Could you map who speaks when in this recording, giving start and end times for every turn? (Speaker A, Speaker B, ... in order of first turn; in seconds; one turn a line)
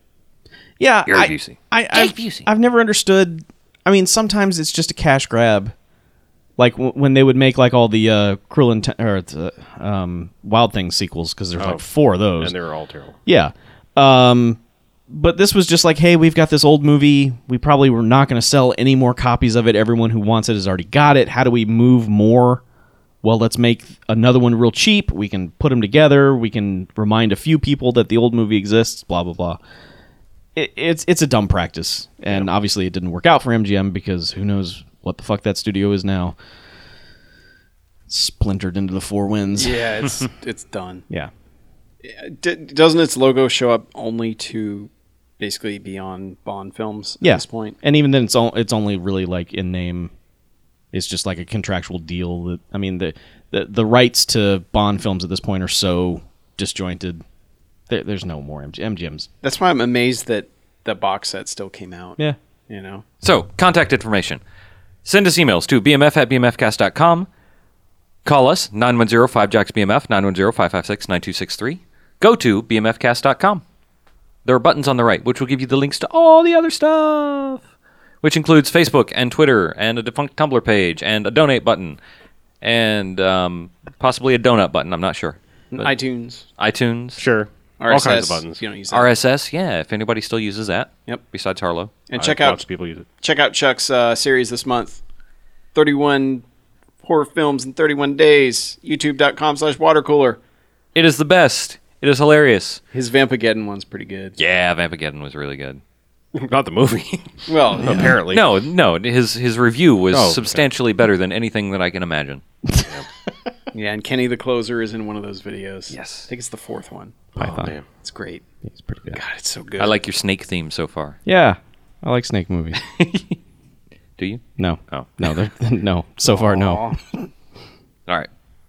Speaker A: 0.8-5.7
Speaker B: 1.1-2.5
Speaker A: 6.6-12.6
Speaker C: 11.6-11.8
Speaker C: 12.4-13.2
Speaker A: 13.3-22.6
Speaker A: 23.2-29.6
Speaker A: 30.6-36.4
Speaker A: 38.1-39.8
Speaker D: 39.6-41.0
Speaker D: 42.0-47.8
Speaker A: 47.2-50.1
Speaker A: 50.9-57.2
Speaker A: 57.9-59.3
Speaker D: 59.4-63.0
Speaker B: 63.2-64.4
Speaker B: 65.0-67.3
Speaker B: 68.2-73.6
Speaker B: 74.5-77.6
Speaker B: 78.2-82.0
Speaker B: 82.6-85.9
Speaker D: 85.7-86.5
Speaker B: 86.6-87.2
Speaker C: 87.2-88.6
Speaker D: 87.8-89.0
Speaker B: 88.9-91.9
Speaker D: 92.1-92.6
Speaker C: 92.2-93.1
Speaker D: 93.2-95.0
Speaker D: 95.8-96.4
Speaker D: 97.0-100.4
Speaker B: 101.0-102.8
Speaker D: 102.9-104.3
Speaker B: 104.4-105.8
Speaker C: 106.3-108.5
Speaker D: 107.5-108.0
Speaker A: 107.9-108.1
Speaker B: 108.3-112.4
Speaker C: 110.1-110.6
Speaker D: 113.7-117.2
Speaker B: 115.9-116.3
Speaker C: 117.3-117.9
Speaker A: 117.4-117.8
Speaker D: 118.0-118.4
Speaker A: 118.7-119.2
Speaker D: 119.1-120.0
Speaker B: 119.8-121.2
Speaker A: 121.2-122.8
Speaker B: 122.8-123.4
Speaker B: 124.2-125.3
Speaker A: 124.6-126.8
Speaker D: 126.3-127.0